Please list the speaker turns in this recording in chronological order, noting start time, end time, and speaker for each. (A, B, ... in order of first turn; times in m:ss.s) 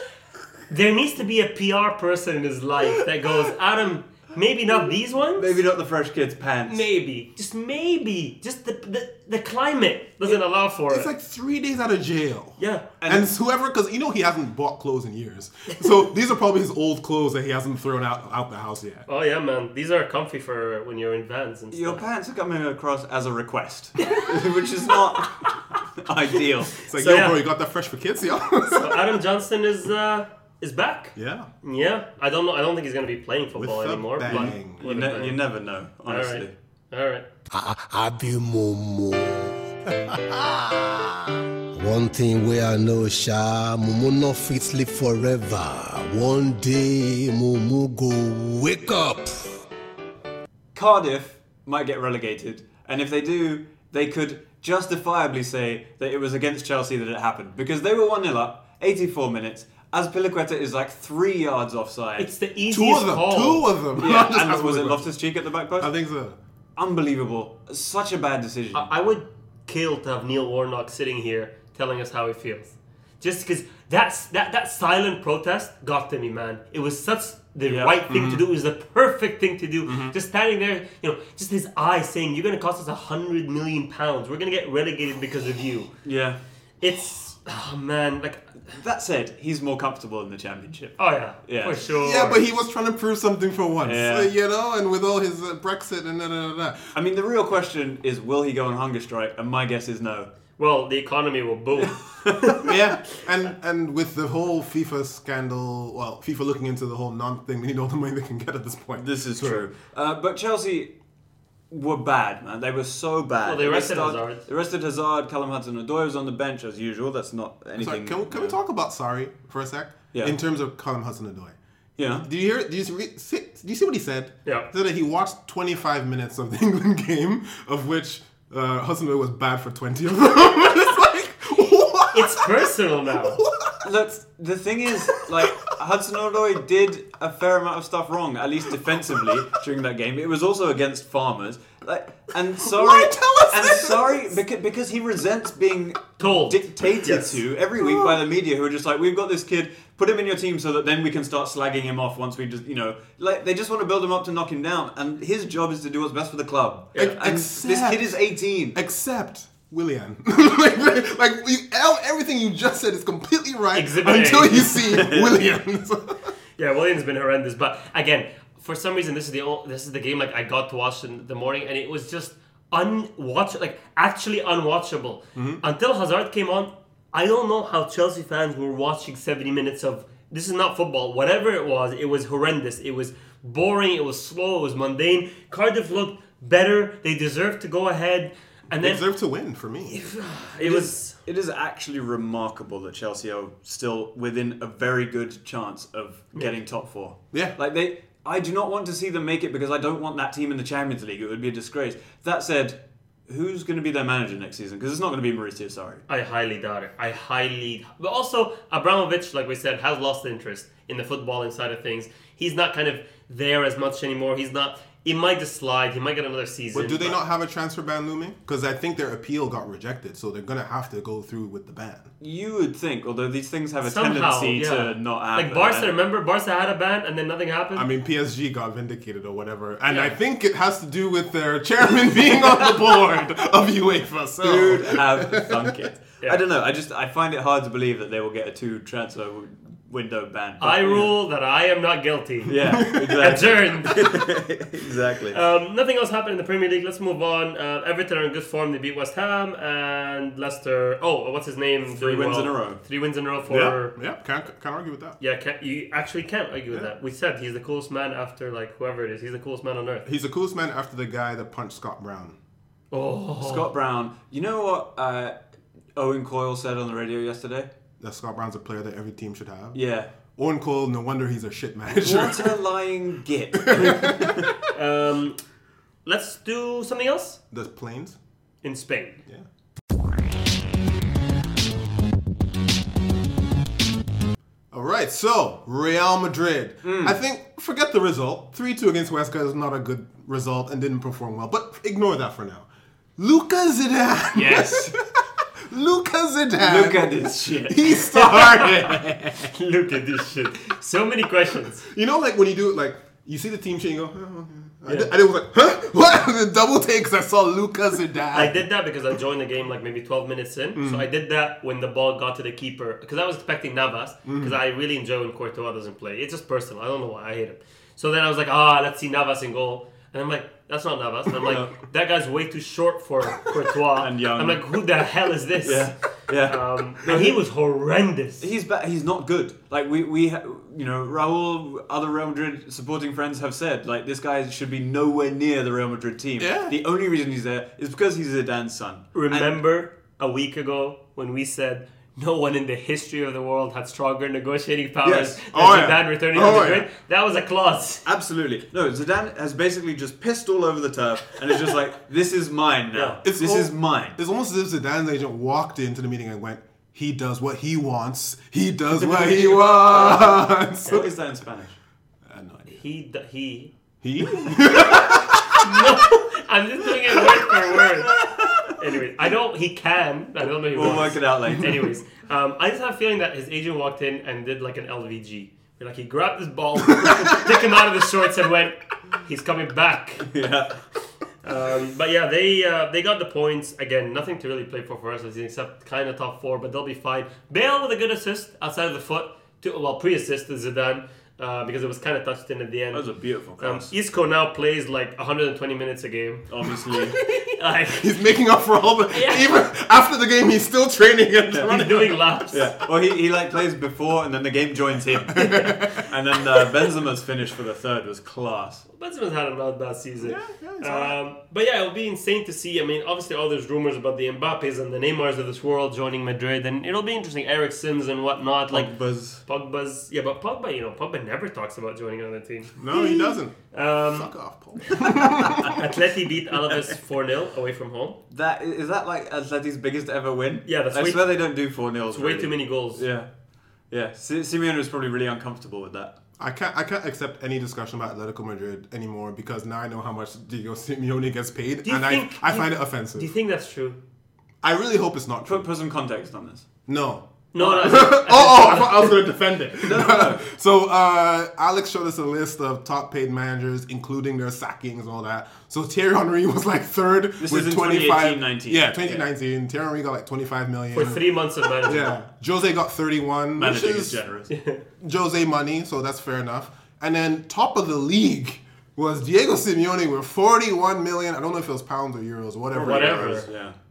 0:00.7-0:05.6 A
0:05.4-0:06.8 B
0:06.7-0:11.1 A
0:10.9-0:19.1 C
0:12.6-0:12.9 A
0:13.0-0:13.3 B
0:19.1-0:22.0 A
0:21.7-0:26.9 B
0:24.0-0:24.3 A
0:26.8-0:29.2 C
0:26.9-0:27.4 A
0:28.7-0:35.4 A
0:31.2-0:31.5 C
0:33.5-0:34.8 C
0:34.2-0:36.5 B
0:36.1-0:37.2 A
0:37.5-0:49.6 D
0:50.8-1:02.3 B
1:02.2-1:03.6 A
1:02.7-1:05.1 C
1:04.0-1:05.9 B
1:05.8-1:06.4 C
1:06.8-1:08.9 B
1:08.7-1:25.9 A
1:17.7-1:18.0 B
1:18.1-1:18.4 C
1:19.8-1:20.2 C
1:26.0-1:26.4 B
1:26.8-1:28.6 A
1:28.7-1:31.8 B
1:31.0-1:32.4 A
1:32.0-1:36.9 C
1:33.8-1:34.3 B
1:36.9-1:40.3 B
1:40.6-1:42.7 A
1:41.8-1:42.6 B
1:42.6-1:49.6 C
1:49.0-1:50.9 B
1:51.7-1:58.6 B
1:53.4-1:54.4 A
1:57.8-2:01.6 C
2:02.0-2:02.3 B
2:02.2-2:13.8 C
2:12.1-2:13.4 A
2:13.8-2:38.8 B
2:22.6-2:24.3 C
2:26.2-2:27.4 A
2:27.8-2:28.1 C
2:37.0-2:38.1 C
2:38.7-2:46.3 C
2:43.7-2:45.0 A
2:44.9-2:45.4 B
2:46.6-3:09.0 A
2:55.4-2:55.6 C
3:08.8-3:10.0 C
3:09.9-3:11.1 A
3:10.6-3:26.0 B
3:26.1-3:37.2 A
3:36.7-3:42.1 C
3:42.2-3:45.9 B
3:43.8-3:47.8 A
3:47.8-3:55.8 C
3:49.9-3:50.2 A
3:54.4-4:01.1 B
4:00.6-4:04.1 A
4:02.5-4:05.4 B
4:02.8-4:03.2 C
4:05.3-4:13.9 A
4:11.9-4:12.8 B
4:13.5-4:15.2 C
4:15.2-4:20.1 A
4:20.0-4:22.4 C
4:22.9-4:23.7 A
4:23.4-4:25.4 B
4:26.0-4:27.7 B
4:28.0-4:29.8 C
4:29.7-4:30.1 B
4:30.4-4:32.6 C
4:32.0-4:34.5 B
4:33.7-4:34.5 C
4:34.7-4:35.4 A
4:36.0-4:37.4 A
4:37.5-4:38.2 C
4:38.6-4:39.2 A
4:44.7-4:59.5 C
4:46.8-4:47.2 B
4:54.3-4:55.0 B
4:56.6-4:57.9 B
4:58.1-4:58.9 A
4:59.4-5:01.8 A
5:01.8-5:08.6 C
5:08.3-5:25.9 A
5:10.8-5:11.1 C
5:14.2-5:14.6 C
5:21.5-5:21.7 B
5:24.0-5:24.6 B
5:25.6-5:27.4 B
5:26.5-5:28.4 A
5:28.4-5:39.5 B
5:36.4-5:36.8 C
5:39.1-5:48.0 A
5:45.0-5:45.4 B
5:45.5-5:46.9 C
5:48.0-5:54.2 B
5:52.9-5:53.2 A
5:53.2-6:01.0 C
5:59.0-6:01.8 B
6:02.2-6:02.8 C
6:02.8-6:03.7 A
6:04.0-6:06.0 C
6:04.7-6:20.3 A
6:07.0-6:07.5 C
6:08.1-6:08.8 B
6:10.7-6:11.8 B
6:17.0-6:17.4 C
6:20.2-6:20.8 B
6:21.4-6:38.1 A
6:32.9-6:33.9 B
6:36.5-6:37.2 B
6:37.9-6:42.4 C
6:39.1-6:39.6 A
6:41.6-6:42.7 A
6:42.5-6:48.8 B
6:45.3-6:46.0 C
6:45.4-6:45.7 A
6:48.9-6:58.9 A
6:50.2-6:51.2 C
6:58.7-6:59.4 B
6:59.4-7:04.3 A
7:02.8-7:03.6 C
7:04.1-7:05.8 C
7:04.9-7:08.2 A
7:05.4-7:05.7 B
7:08.3-7:13.3 B
7:10.6-7:11.3 A
7:12.1-7:13.0 A
7:13.9-7:16.2 B
7:16.4-7:23.3 C
7:21.8-7:24.0 A
7:24.6-7:25.7 C
7:25.4-7:26.6 B
7:26.9-7:41.2 C
7:27.5-7:29.2 A
7:29.8-7:30.4 B
7:37.4-7:39.3 B
7:40.9-7:42.2 A
7:41.8-7:44.2 C
7:43.6-7:44.5 B
7:44.5-7:44.8 A
7:45.0-7:53.5 C
7:52.7-7:53.8 B
7:52.8-7:53.5 A